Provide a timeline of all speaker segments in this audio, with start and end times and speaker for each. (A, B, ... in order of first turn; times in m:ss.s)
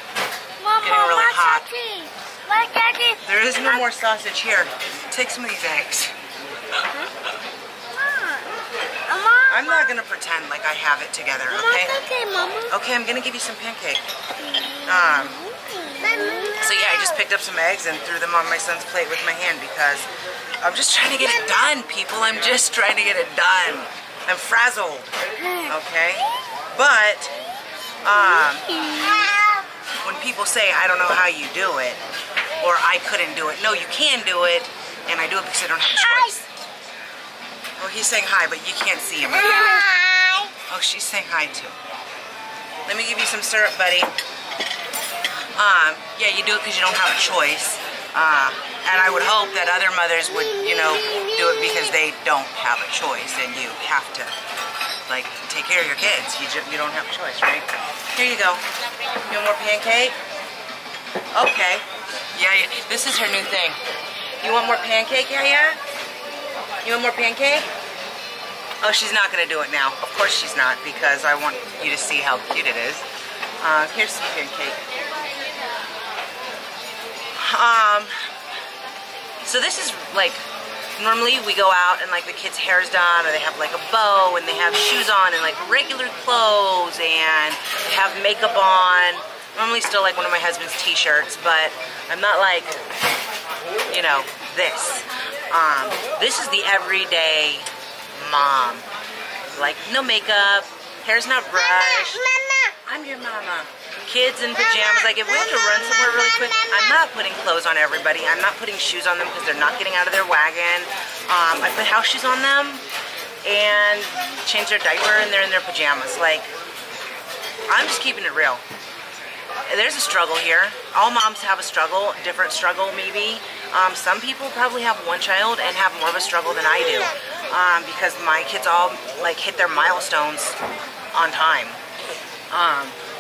0:00.6-0:03.8 A
0:00.8-0:01.7 B
0:03.2-0:06.1 B
0:08.0-0:09.9 A
0:09.5-0:12.0 B
0:11.5-0:12.7 A
0:12.7-0:14.1 B
0:14.8-0:15.4 B
0:14.9-0:17.1 A
0:16.6-0:20.1 B
0:20.6-0:25.1 B
0:25.7-0:27.3 B
0:28.0-0:28.8 B
0:28.7-0:29.6 A
0:30.0-0:32.0 B
0:32.6-0:36.5 B
0:36.1-0:36.4 A
0:37.8-0:40.0 B
0:39.5-0:40.5 A
0:40.6-0:41.8 B
0:42.9-0:44.1 B
0:45.6-0:54.3 B
0:50.8-0:51.3 A
0:55.1-0:58.7 B
0:59.2-1:00.2 B
1:01.3-1:03.8 B
1:04.4-1:05.8 B
1:06.8-1:07.7 B
1:08.8-1:13.0 B
1:13.6-1:14.8 B
1:17.4-1:18.1 B
1:19.4-1:20.4 B
1:21.0-1:32.8 B
1:33.9-1:38.9 B
1:39.6-1:42.3 B
1:42.4-1:42.7 A
1:42.9-1:52.8 B
1:53.4-1:56.5 B
1:57.7-1:58.6 B
1:59.7-2:10.6 B
2:11.1-2:11.8 B
2:12.5-2:13.0 B